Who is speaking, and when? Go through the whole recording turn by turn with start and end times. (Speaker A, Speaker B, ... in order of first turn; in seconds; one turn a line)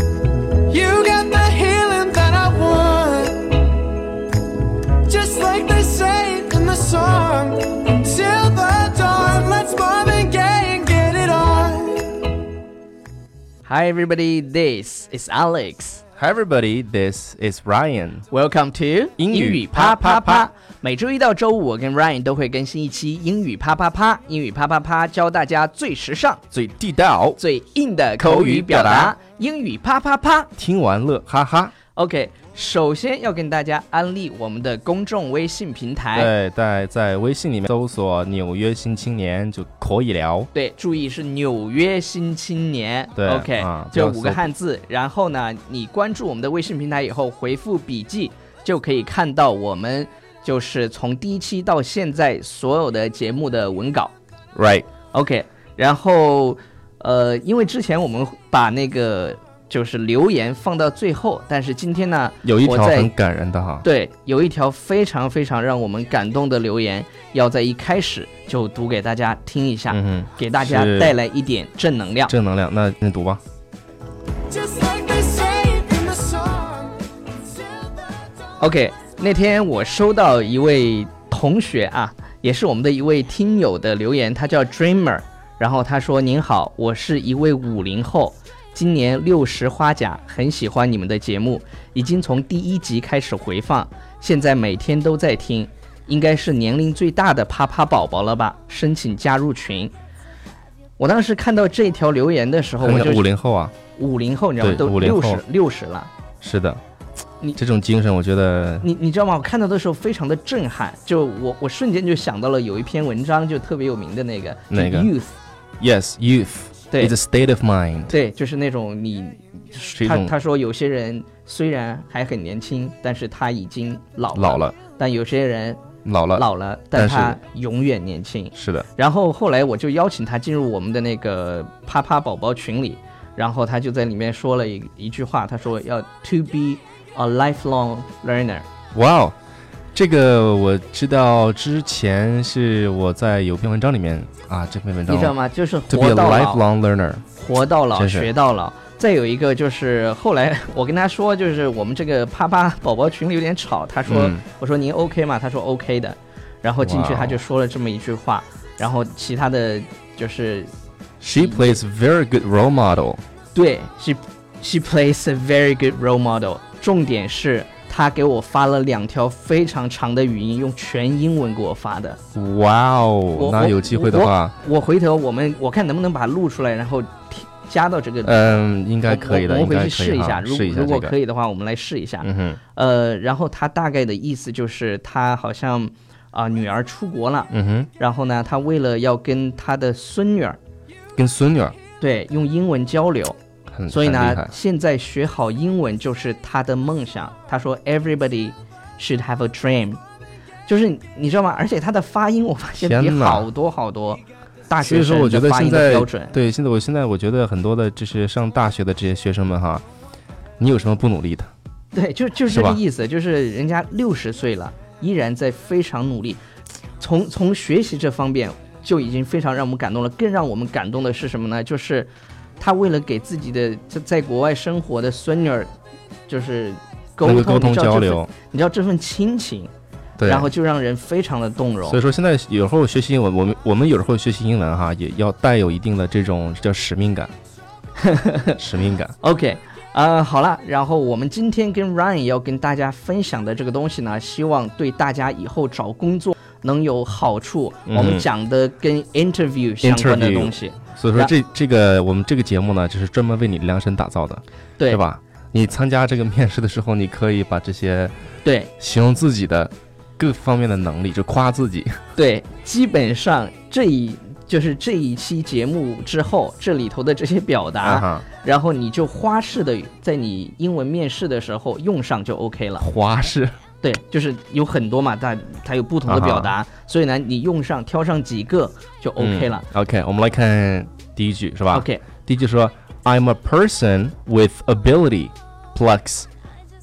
Speaker A: 0.7-3.8
Speaker A: 5.0-12.3
Speaker B: 13.7-16.0
Speaker C: 16.2-18.3
Speaker B: 18.3-26.4
Speaker C: 19.2-20.5
Speaker C: 26.5-27.4
Speaker B: 27.4-30.5
Speaker C: 28.2-29.1
Speaker C: 30.6-31.7
Speaker B: 31.9-36.3
Speaker C: 36.1-40.5
Speaker B: 40.5-54.1
Speaker C: 43.1-44.4
Speaker C: 54.5-54.9
Speaker B: 55.1-63.1
Speaker C: 62.4-63.8
Speaker B: 63.8-72.3
Speaker C: 69.9-71.2
Speaker C: 72.3-73.4
Speaker A: 74.5-77.0
Speaker B: 78.6-99.9
Speaker B: 101.0-103.3
Speaker C: 102.8-103.7
Speaker B: 103.9-106.1
Speaker C: 104.6-105.4
Speaker C: 106.4-106.8
Speaker C: 107.5-108.9
Speaker B: 108.8-115.3
Speaker C: 114.7-115.1
Speaker C: 115.8-118.1
Speaker B: 118.1-125.8
Speaker C: 120.0-120.3
Speaker C: 124.3-124.8
Speaker C: 126.0-127.4
Speaker B: 126.3-138.7
Speaker C: 128.5-128.9
Speaker C: 138.9-139.3
Speaker C: 139.9-145.3
Speaker B: 145.1-146.6
Speaker C: 145.9-147.2
Speaker B: 147.4-160.7
Speaker C: 147.9-148.3
Speaker C: 154.1-154.4
Speaker C: 156.8-157.4
Speaker C: 161.2-163.2
Speaker B: 161.3-161.8
Speaker B: 163.5-172.2
Speaker C: 172.3-174.5
Speaker B: 173.3-190.6
Speaker C: 178.2-181.1
Speaker C: 182.2-182.6
Speaker C: 187.5-187.9
Speaker C: 191.2-191.8
Speaker B: 192.0-193.3
Speaker C: 193.7-194.5
Speaker B: 193.9-200.0
Speaker B: 200.7-206.3
Speaker C: 202.8-203.5
Speaker C: 204.8-209.8
Speaker C: 210.6-211.5
Speaker B: 211.9-216.4
Speaker C: 212.4-212.8
Speaker B: 217.0-225.7
Speaker B: 226.3-229.7
Speaker C: 227.2-228.3
Speaker C: 230.2-230.5
Speaker B: 230.2-232.0
Speaker C: 231.9-237.3
Speaker B: 238.0-238.6
Speaker C: 238.6-239.1
Speaker B: 239.2-251.3
Speaker C: 247.9-248.2
Speaker C: 249.8-258.1
Speaker B: 258.4-258.7
Speaker C: 258.8-262.0
Speaker B: 262.1-272.9
Speaker C: 267.8-268.2
Speaker C: 272.8-273.6
Speaker B: 273.8-279.7
Speaker C: 276.1-276.5
Speaker C: 279.2-286.3
Speaker B: 281.7-282.0